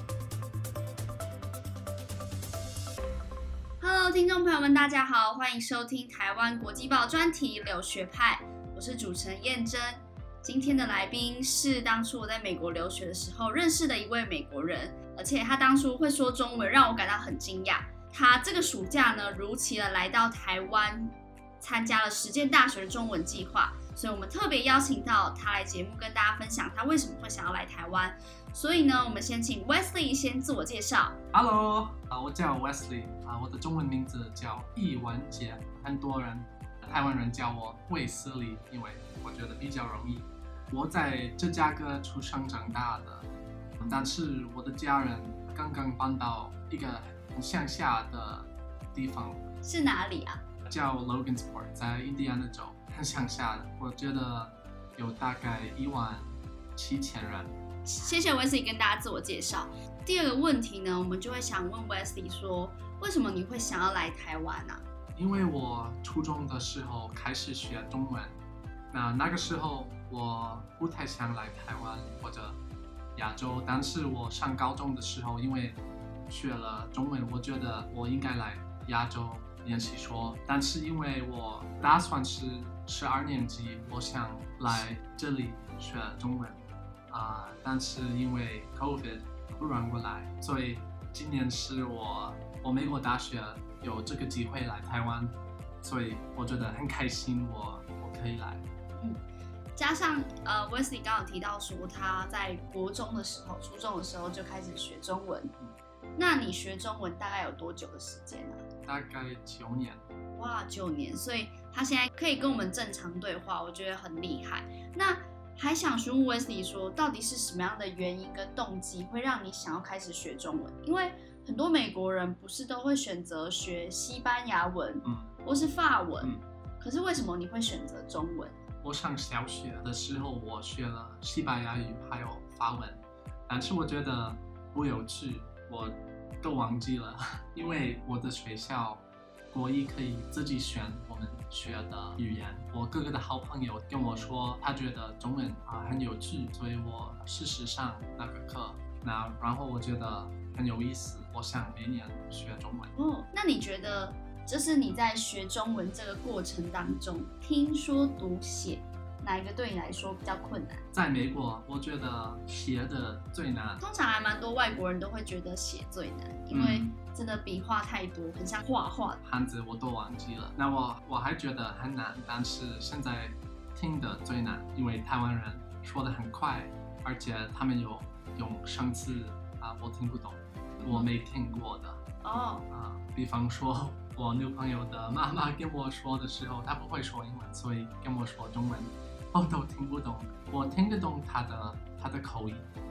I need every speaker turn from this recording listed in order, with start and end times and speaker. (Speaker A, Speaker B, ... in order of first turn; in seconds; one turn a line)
Speaker A: 3.8-31.2
Speaker B: 31.3-43.3
Speaker B: 43.8-49.5
Speaker A: 49.6-50.4
Speaker B: 50.7-57.5
Speaker A: 57.8-64.8
Speaker B: 65.2-68.4
Speaker B: 68.9-72.6
Speaker B: 73.1-98.6
Speaker A: 99.7-105.5
Speaker A: 106.2-108.7
Speaker B: 108.8-110.0
Speaker A: 110.3-128.6
Speaker B: 125.0-125.3
Speaker B: 128.8-152.9
Speaker A: 152.9-160.9
Speaker B: 160.9-163.8
Speaker A: 163.8-169.2
Speaker B: 166.5-166.9
Speaker B: 169.2-182.0
Speaker A: 180.8-181.1
Speaker A: 182.2-182.7
Speaker B: 182.7-192.7